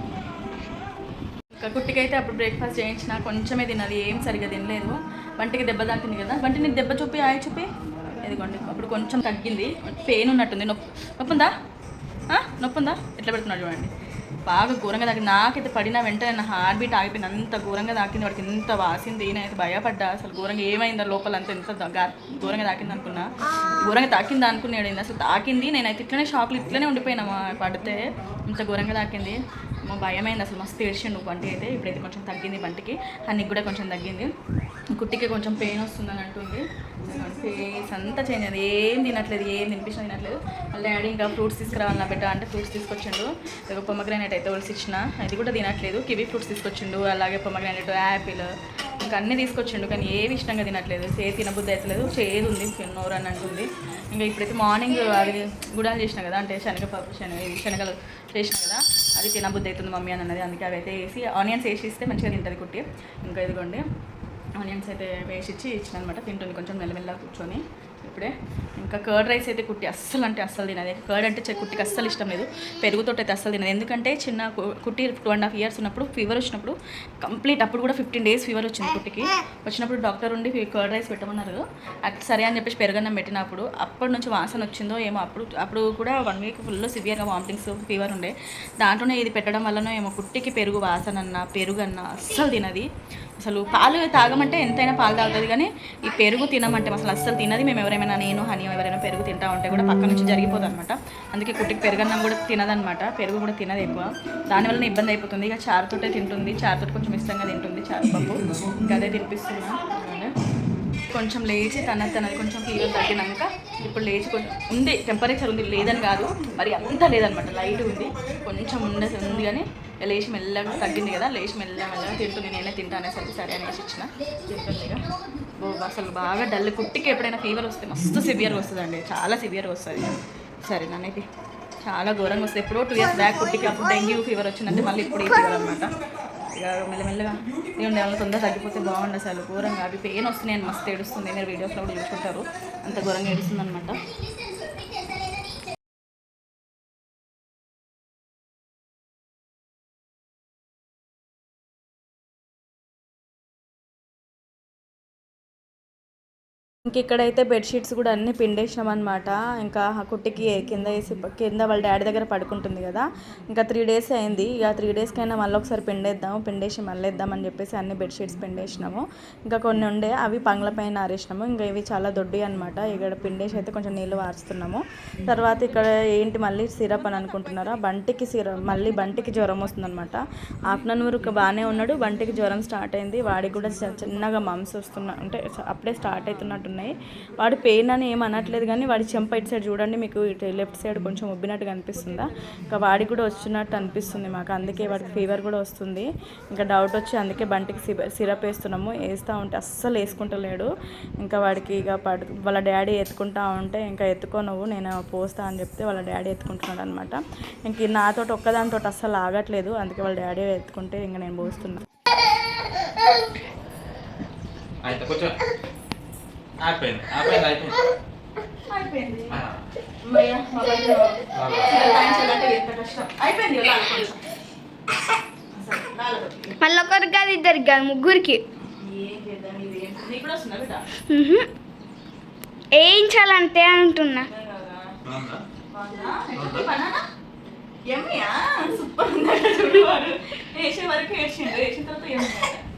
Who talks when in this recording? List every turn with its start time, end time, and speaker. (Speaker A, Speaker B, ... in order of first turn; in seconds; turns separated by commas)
Speaker A: 1.5-11.5, Speaker A: 12.3-13.9, Speaker A: 14.4-34.3, Speaker A: 34.9-63.9, Speaker A: 64.6-110.3, Speaker A: 111.1-125.0, Speaker A: 125.6-131.2, Speaker A: 131.8-144.0, Speaker A: 156.8-200.7, Speaker A: 201.2-211.9, Speaker B: 214.8-215.4, Speaker B: 216.6-217.8, Speaker A: 218.5-219.4, Speaker B: 219.3-219.6, Speaker A: 220.0-224.2, Speaker B: 221.3-221.7, Speaker A: 225.5-226.6, Speaker C: 226.6-228.4, Speaker A: 228.6-230.9, Speaker C: 231.1-231.5, Speaker C: 232.8-234.3, Speaker A: 234.1-234.9, Speaker B: 235.1-235.4, Speaker A: 235.7-237.1, Speaker B: 236.4-236.7, Speaker A: 237.9-242.6